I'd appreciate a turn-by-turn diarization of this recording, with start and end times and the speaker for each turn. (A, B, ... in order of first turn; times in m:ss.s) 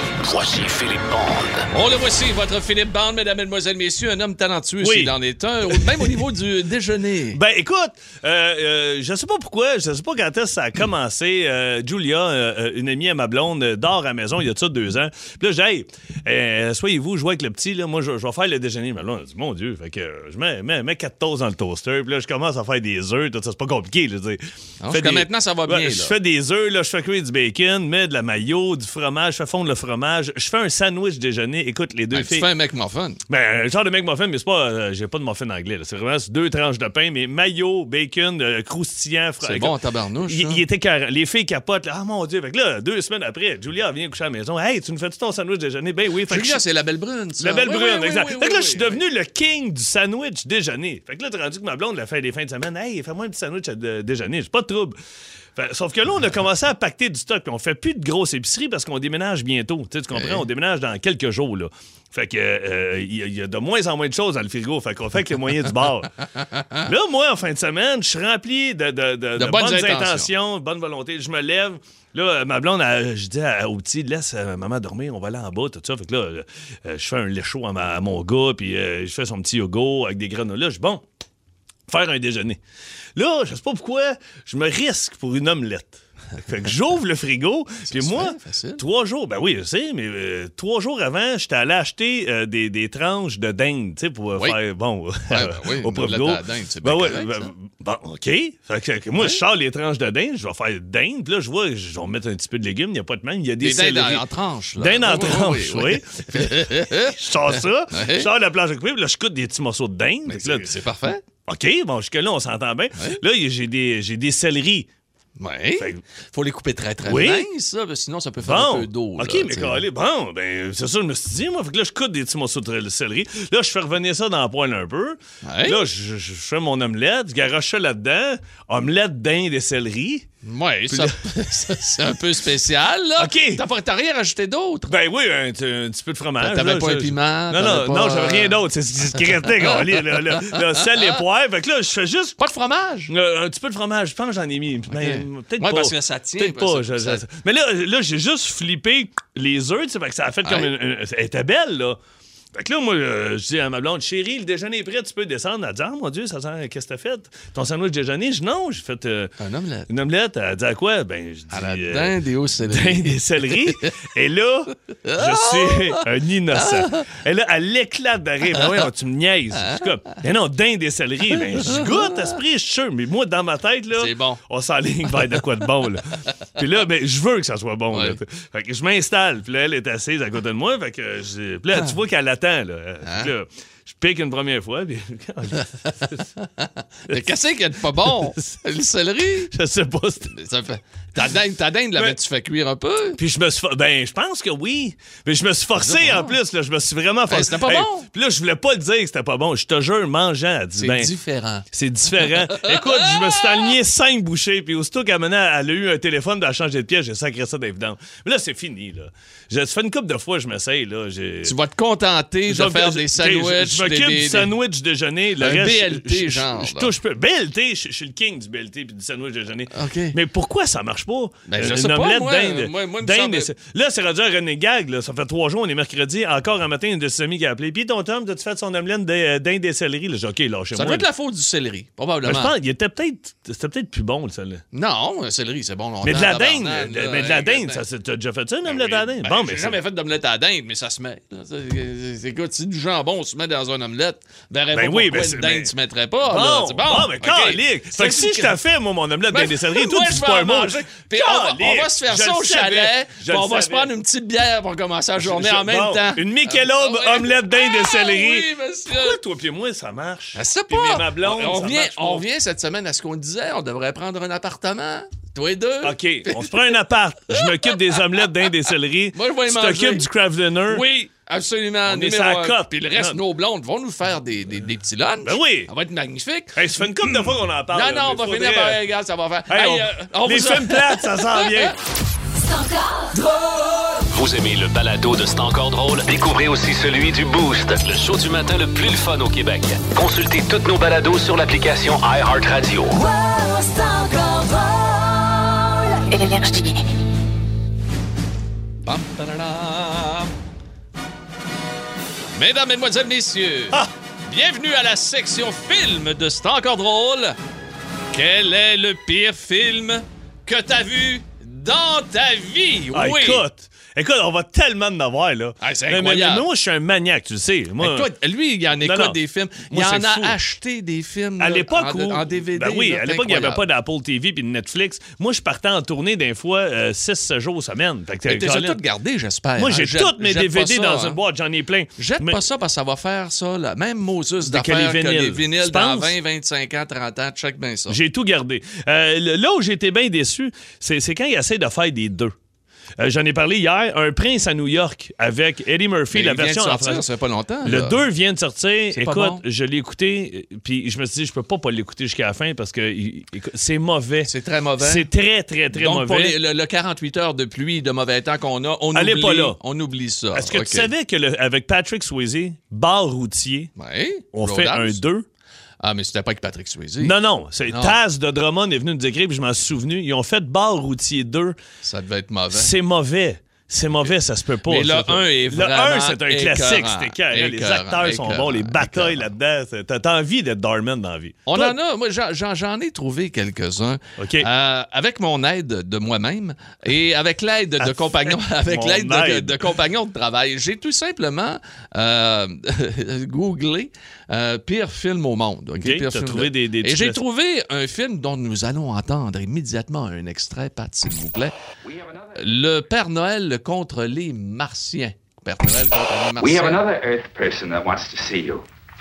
0:00.2-0:01.7 A
0:01.7-0:07.4 B
0:04.8-0:05.2 C
0:05.7-0:06.1 C
0:07.3-0:32.5 C
0:24.8-0:26.2 B
0:32.1-0:33.2 B
0:33.3-0:46.6 C
0:39.4-0:40.6 B
0:46.3-0:49.0 B
0:47.4-0:55.0 C
0:55.6-1:06.1 C
1:00.1-1:00.4 B
1:06.6-1:06.9 B
1:06.8-1:21.0 C
1:09.4-1:10.3 B
1:21.9-1:22.6 C
1:23.2-1:44.2 C
1:27.9-1:28.8 B
1:35.3-1:37.5 B
1:43.6-1:48.3 B
1:44.8-1:50.7 C
1:50.3-1:51.2 B
1:51.5-1:54.9 C
1:55.4-1:59.8 B
1:57.0-1:57.5 C
1:58.4-2:10.3 C
2:05.4-2:05.8 B
2:10.4-2:14.9 B
2:10.9-2:11.2 C
2:13.2-2:13.6 C
2:14.9-2:22.4 C
2:16.4-2:18.6 B
2:19.2-2:21.1 B
2:22.4-2:23.1 B
2:23.1-2:32.0 C
2:24.9-2:27.2 B
2:30.4-2:30.7 B
2:32.5-2:39.3 C
2:39.4-2:39.9 B
2:39.9-3:06.3 C
2:41.5-2:44.0 B
2:45.0-2:46.0 B
2:46.6-2:47.0 B
2:51.6-2:51.9 B
2:53.9-2:54.4 B
2:57.9-2:58.2 B
3:03.0-3:03.3 B
3:05.9-3:09.5 B
3:08.0-3:08.6 C
3:09.5-3:10.4 C
3:10.2-3:13.2 B
3:13.2-3:21.1 C
3:15.8-3:16.3 B
3:17.3-3:18.1 B
3:20.8-3:23.7 B
3:21.7-3:31.6 C
3:31.4-3:34.5 B
3:32.5-3:51.1 C
3:35.4-3:36.9 B
3:39.7-3:40.2 B
3:41.5-3:43.5 B
3:50.7-3:52.5 B
3:52.2-3:54.6 C
3:54.7-3:57.8 B
3:56.0-3:59.8 C
3:58.7-4:08.6 B
4:04.7-4:05.7 C
4:06.3-4:13.9 C
4:09.3-4:19.2 B
4:15.2-4:22.2 C
4:20.4-4:26.7 B
4:25.8-4:30.8 C
4:27.3-4:28.0 B
4:29.1-4:30.1 B
4:30.7-4:41.7 B
4:31.8-4:33.2 C
4:35.2-4:35.7 C
4:36.6-4:38.8 C
4:39.5-4:41.8 C
4:42.4-4:43.4 D
4:44.1-4:53.0 A
4:52.9-4:56.8 D
4:58.8-5:00.3 B
5:02.3-5:07.4 B
5:08.1-5:13.4 B
5:12.9-5:18.1 C
5:15.6-5:16.5 B
5:17.8-5:23.6 B
5:18.8-5:19.2 C
5:19.7-5:20.4 C
5:21.4-5:28.8 C
5:28.2-5:31.2 B
5:29.6-5:32.4 C
5:32.0-5:38.0 B
5:34.4-5:36.2 C
5:37.9-5:42.4 C
5:43.0-5:47.0 C
5:46.1-5:48.0 B
5:47.6-5:56.4 C
5:48.9-5:49.4 B
5:54.2-5:55.1 B
5:55.7-6:00.9 B
5:58.9-5:59.6 C
6:00.3-6:03.7 C
6:03.8-6:05.0 B
6:04.3-6:05.3 C
6:05.8-6:07.2 B
6:07.0-6:11.6 C
6:07.7-6:08.0 B
6:11.8-6:12.7 B
6:12.5-6:21.8 C
6:14.7-6:19.3 B
6:21.5-6:41.5 B
6:24.2-6:24.5 C
6:27.8-6:29.7 C
6:35.8-6:37.2 C
6:41.9-6:42.4 E
6:42.4-6:46.8 B
6:46.4-6:48.6 E